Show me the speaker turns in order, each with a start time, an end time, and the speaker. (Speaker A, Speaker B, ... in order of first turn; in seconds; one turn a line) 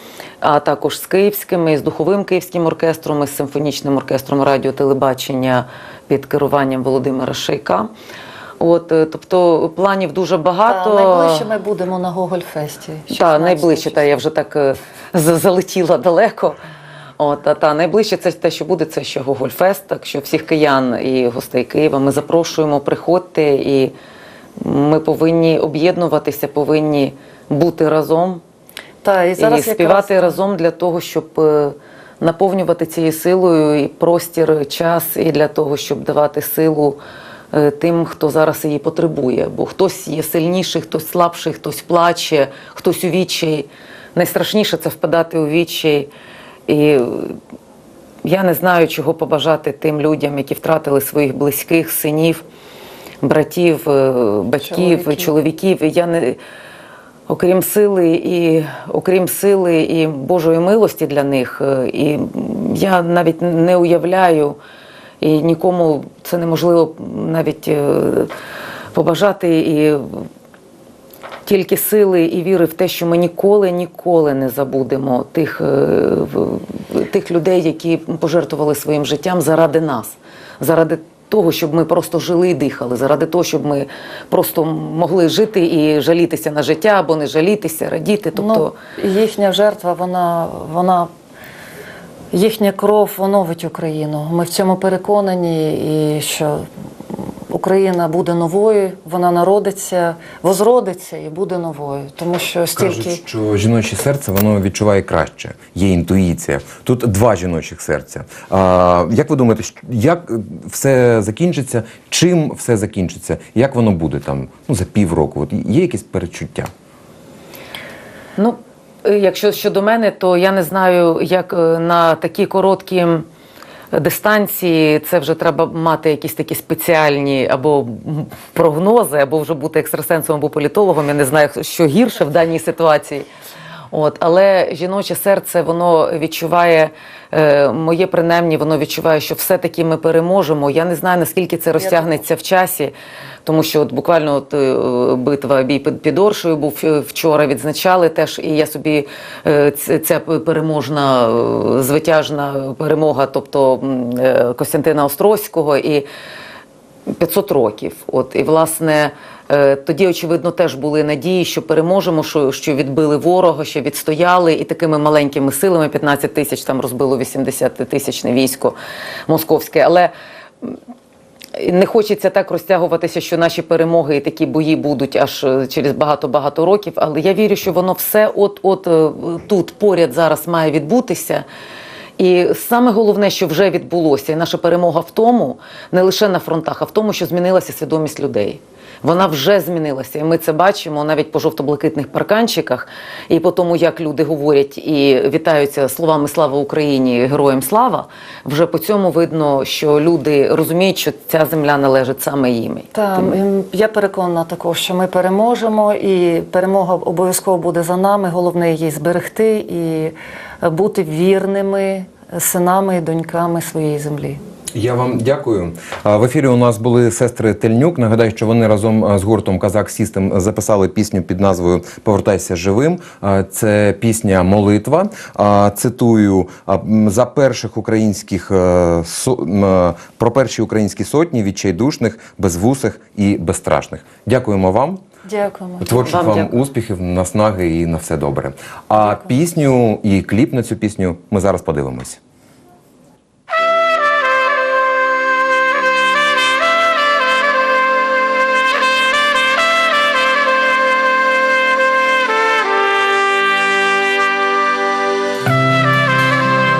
Speaker A: 0.4-7.9
Speaker A: 8.6-11.5
Speaker B: 10.7-14.1
Speaker A: 13.1-16.6
Speaker A: 17.2-23.9
Speaker A: 24.6-28.4
Speaker B: 29.0-30.4
Speaker A: 29.4-37.0
Speaker A: 37.5-46.1
Speaker A: 46.7-47.4
Speaker A: 48.2-52.4
Speaker A: 53.2-56.4
Speaker B: 54.6-55.3
Speaker A: 57.3-64.6
Speaker A: 65.2-68.3
Speaker A: 68.9-70.2
Speaker A: 71.5-88.7
Speaker B: 88.3-91.1
Speaker B: 92.3-96.7
Speaker B: 97.5-103.2
Speaker C: 102.8-116.7
Speaker A: 118.4-123.2
Speaker A: 123.9-133.3
Speaker A: 133.9-142.9
Speaker A: 143.4-156.1
Speaker A: 157.1-168.8
Speaker A: 169.3-170.1
Speaker A: 171.5-181.4
Speaker A: 182.2-203.3
Speaker B: 202.9-214.4
Speaker C: 214.7-235.0
Speaker B: 235.2-236.1
Speaker C: 235.8-242.2
Speaker A: 236.0-236.6